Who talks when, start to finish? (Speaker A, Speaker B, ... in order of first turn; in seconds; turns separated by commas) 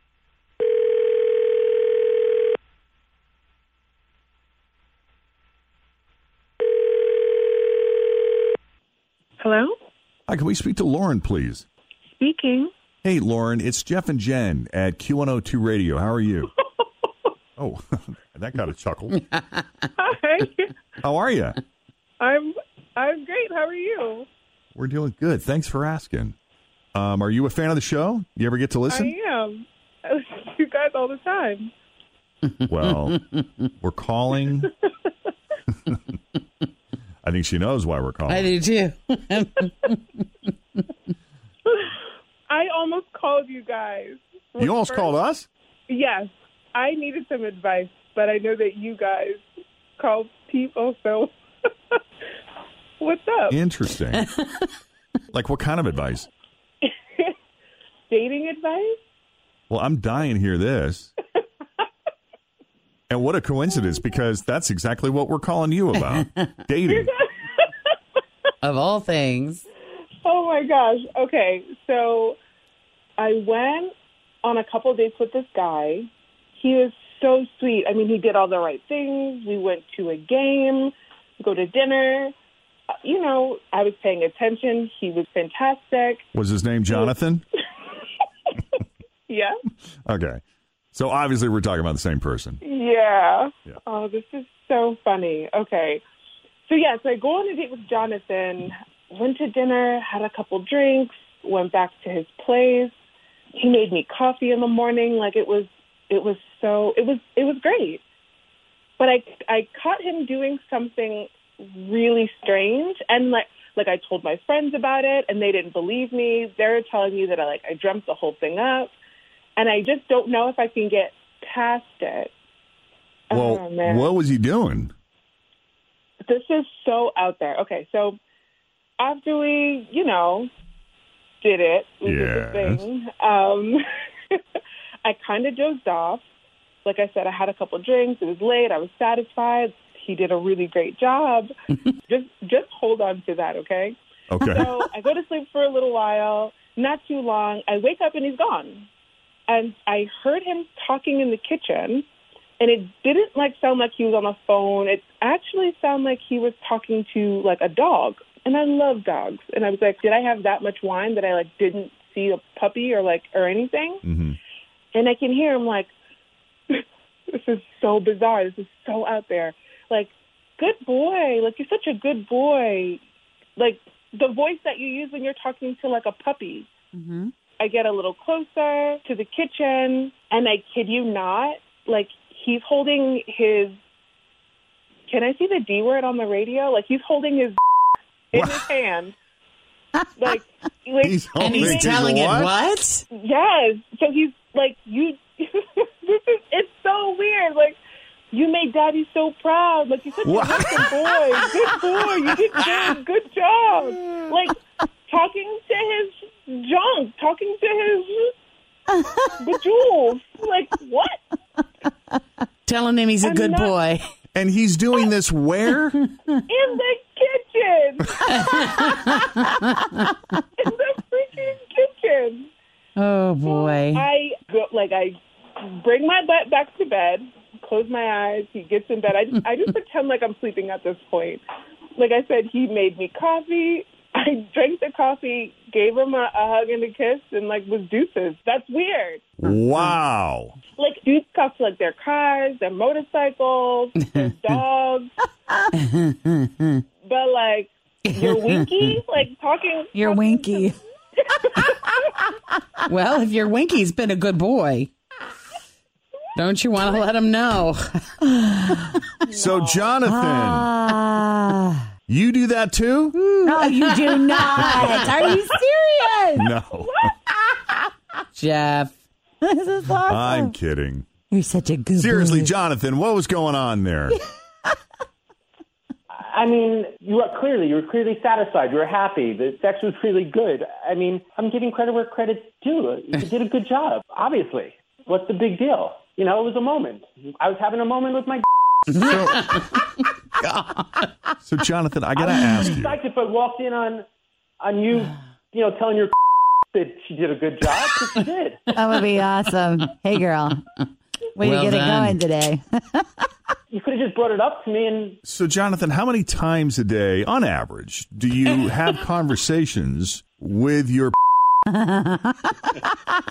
Speaker A: 9.4-9.8, Speaker B: 10.3-11.7, Speaker A: 12.2-12.7, Speaker B: 13.0-16.5, Speaker B: 17.6-19.2, Speaker A: 20.0-20.7, Speaker B: 21.0-21.6, Speaker A: 22.2-24.3, Speaker B: 24.8-26.4, Speaker B: 26.9-29.1, Speaker A: 28.9-31.7, Speaker C: 32.5-33.7, Speaker B: 32.7-33.2, Speaker B: 33.8-34.7, Speaker B: 37.2-38.5, Speaker C: 38.3-40.2, Speaker A: 42.5-45.1, Speaker B: 44.6-45.5, Speaker A: 45.9-49.4, Speaker A: 50.0-51.3, Speaker A: 53.0-53.6, Speaker B: 53.5-54.3, Speaker C: 54.2-54.7, Speaker B: 55.3-56.3, Speaker A: 56.9-57.3, Speaker A: 58.1-59.0, Speaker B: 59.7-61.1, Speaker B: 63.1-67.1, Speaker C: 68.6-69.7, Speaker A: 70.2-72.4, Speaker A: 73.2-82.3, Speaker A: 83.0-86.2, Speaker B: 86.3-87.4, Speaker A: 89.3-89.5, Speaker B: 90.1-90.4, Speaker B: 90.9-92.6, Speaker A: 92.6-96.0, Speaker A: 96.7-102.9, Speaker A: 103.5-108.0, Speaker A: 109.0-118.9, Speaker A: 119.6-122.3, Speaker A: 123.3-124.1, Speaker B: 123.3-124.9, Speaker A: 126.3-128.2, Speaker A: 129.0-130.5, Speaker A: 131.4-133.8, Speaker B: 132.1-132.8, Speaker A: 135.0-136.2, Speaker A: 136.8-141.5, Speaker A: 142.1-148.9, Speaker B: 144.3-144.7, Speaker A: 149.5-152.1, Speaker A: 152.6-164.0, Speaker B: 164.1-164.4, Speaker A: 164.9-165.9, Speaker A: 167.3-173.0, Speaker A: 173.6-176.7, Speaker D: 176.9-177.3, Speaker A: 177.6-183.7, Speaker A: 185.1-187.6, Speaker A: 188.3-189.1, Speaker B: 188.4-188.6, Speaker A: 190.2-191.9, Speaker B: 191.0-192.5, Speaker C: 191.4-193.1, Speaker A: 193.1-197.8, Speaker A: 198.3-204.6, Speaker B: 200.2-201.0, Speaker A: 205.1-208.3, Speaker A: 209.4-211.2, Speaker C: 212.7-214.0, Speaker A: 213.2-213.7, Speaker B: 214.3-216.0, Speaker C: 216.0-216.4, Speaker A: 216.5-218.9, Speaker C: 218.3-220.1, Speaker A: 220.6-222.5, Speaker C: 223.0-224.1, Speaker A: 223.4-231.4, Speaker A: 232.0-239.2, Speaker B: 239.4-240.6, Speaker A: 240.8-245.1, Speaker C: 243.9-244.3, Speaker C: 245.7-246.8, Speaker A: 247.0-250.7, Speaker C: 248.1-249.1, Speaker D: 249.9-250.8, Speaker C: 252.9-254.9, Speaker C: 256.4-258.2, Speaker D: 258.2-258.8, Speaker A: 259.3-259.9, Speaker B: 259.3-260.7, Speaker D: 260.1-261.9, Speaker B: 262.1-263.2, Speaker D: 263.2-266.5, Speaker C: 263.4-265.3, Speaker B: 266.4-267.1, Speaker C: 268.4-268.9, Speaker D: 269.4-270.6, Speaker B: 270.1-271.1, Speaker D: 271.3-272.5, Speaker B: 272.0-274.2, Speaker E: 276.2-289.1, Speaker C: 288.9-291.1, Speaker B: 289.0-289.6, Speaker B: 291.4-292.9, Speaker E: 292.2-294.0, Speaker E: 294.6-296.2, Speaker E: 296.7-298.7, Speaker D: 298.7-300.6, Speaker D: 301.4-303.2, Speaker C: 301.4-302.2, Speaker E: 303.7-305.2, Speaker B: 305.2-311.1, Speaker D: 311.7-312.7